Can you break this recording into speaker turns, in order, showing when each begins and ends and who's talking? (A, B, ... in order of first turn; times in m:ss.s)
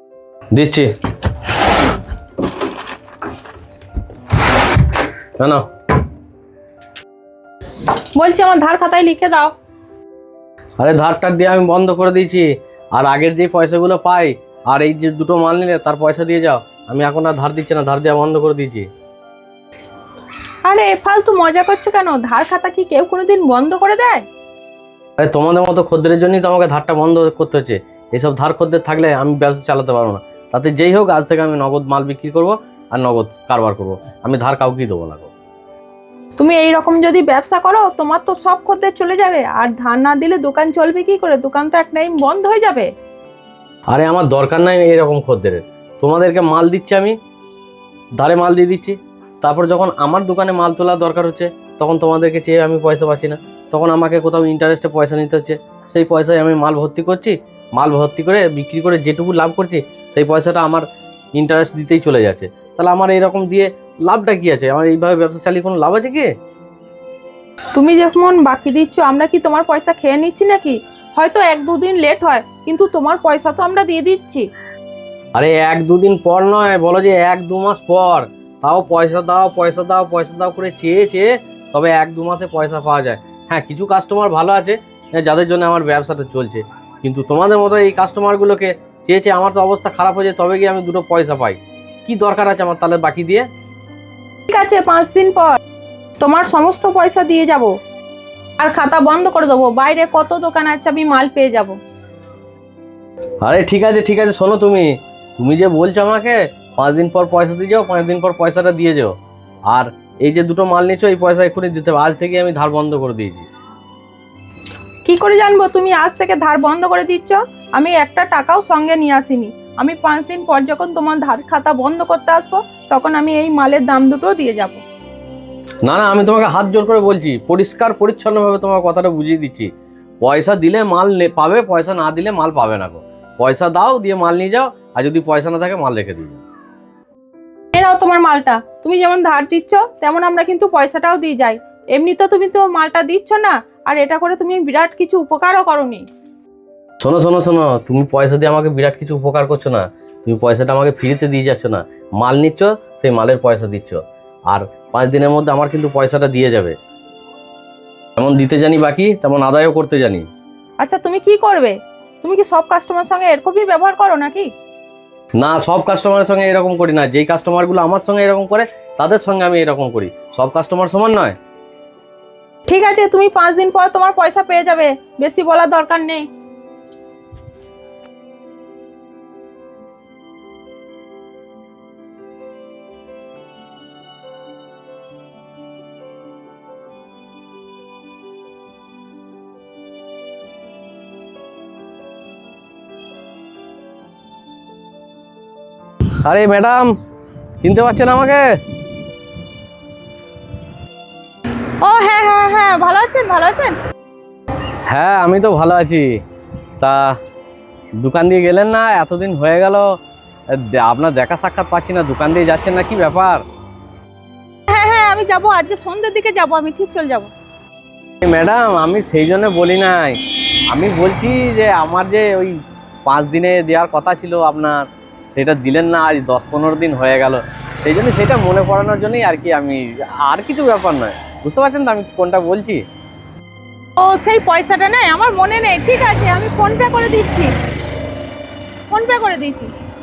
0:00.5-0:00.9 A
0:05.4-0:05.6 A
0:08.2-0:09.5 B
0:10.8-0:18.9 A
0:20.6-0:24.2 B
0:25.2-0:35.3 A
0:36.4-0:42.9 B
0:43.9-0:47.2 A
0:48.2-1:06.3 A
1:07.7-1:14.5 B
1:15.3-1:33.5 A
1:34.5-1:35.6 B
1:36.2-1:37.7 B
1:38.6-1:41.8 B
1:43.4-1:49.2 A
1:49.7-1:53.5 A
1:55.0-2:04.8 B
2:05.8-2:16.4 A
2:17.7-2:26.1 B
2:27.0-2:36.8 A
2:38.2-2:40.3 A
2:40.8-2:44.5 B
2:45.4-2:51.4 A
2:52.7-2:56.3 B
3:16.1-3:17.0 A
3:17.6-3:18.6 A
3:21.8-3:23.8 B
3:24.9-3:26.2 A
3:26.8-3:27.2 A
3:28.0-3:30.0 A
3:30.5-3:33.4 A
3:34.7-3:37.3 B
3:38.2-3:52.8 A
3:54.0-3:57.5 B
3:58.9-3:59.7 B